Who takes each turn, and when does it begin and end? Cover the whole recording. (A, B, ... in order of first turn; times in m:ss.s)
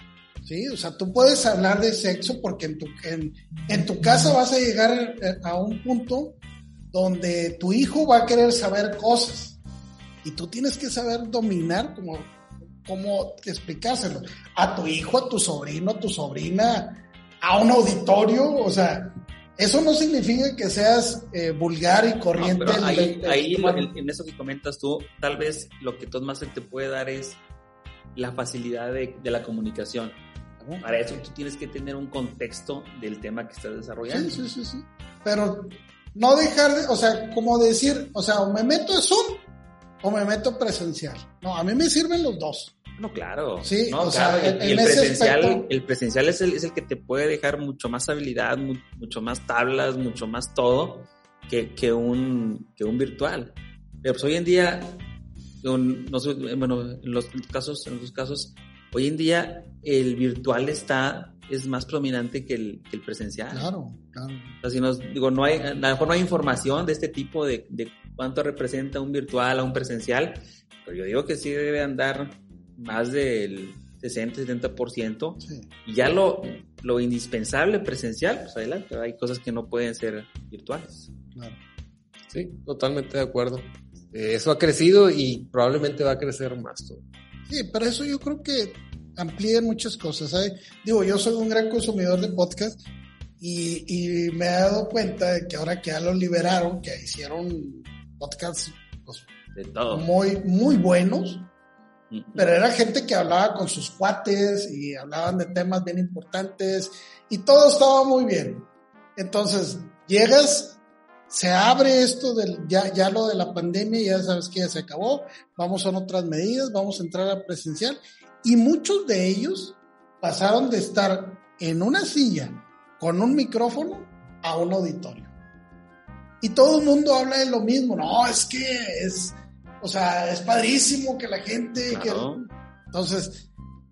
0:00.4-0:06.4 A
0:06.9-0:09.6 A
0:10.2-0:23.9 A
0:22.4-0:27.4 B
0:28.1-0:30.2 B
0:30.6-0:30.9 A
0:30.8-0:34.4 B
0:34.1-0:39.4 A
0:40.0-0:42.7 A
0:43.0-0:55.0 B
0:43.6-0:45.7 A
0:55.6-1:03.7 B
1:03.5-1:04.6 A
1:04.6-1:21.1 B
1:22.3-1:27.0 C
1:27.5-1:32.8 A
1:33.4-1:39.3 A
1:39.5-1:40.0 B
1:39.9-1:41.5 A
1:42.1-1:42.5 B
1:42.4-1:50.8 A
1:51.3-2:05.3 A
2:06.4-2:12.2 A
2:11.9-2:12.5 B
2:12.9-2:13.5 A